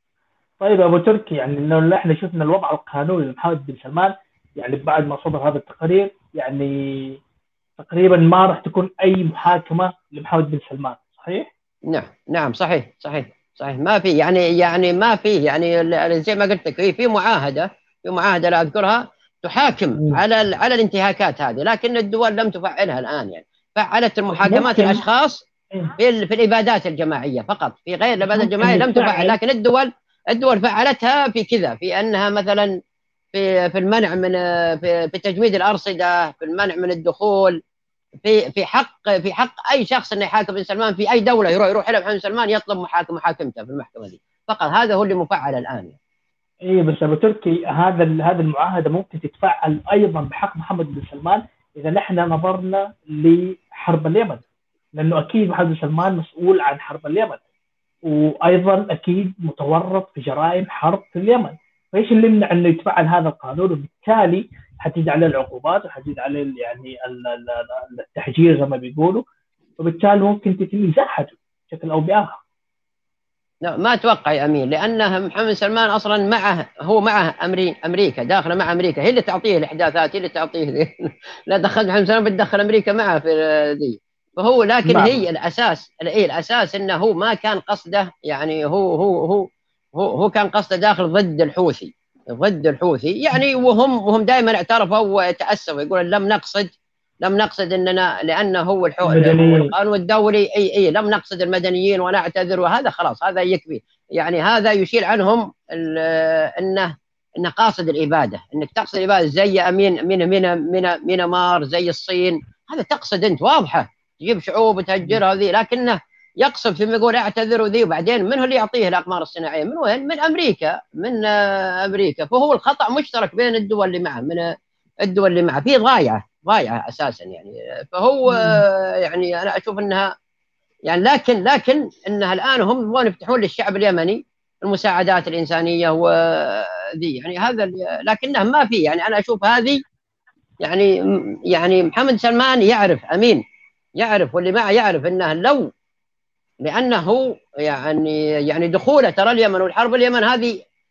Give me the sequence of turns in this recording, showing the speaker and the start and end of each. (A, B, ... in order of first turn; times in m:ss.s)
0:00.6-0:07.2 A
0:07.8-0:11.5 A
0:11.9-0:25.4 B
0:24.3-0:25.0 A
0:26.0-0:32.8 B
0:28.2-0:29.4 A
0:33.3-0:37.6 B
0:38.2-0:46.0 B
0:46.6-0:54.4 A
0:55.0-0:57.4 A
0:58.1-1:09.2 A
1:09.8-1:12.4 A
1:13.6-1:36.7 B
1:24.8-1:25.2 A
1:37.2-2:04.5 B
1:39.0-1:39.7 A
2:05.0-2:10.1 B
2:08.3-2:08.6 A
2:10.8-2:19.8 B
2:20.6-2:23.4 B
2:24.0-2:25.7 B
2:26.6-2:30.6 B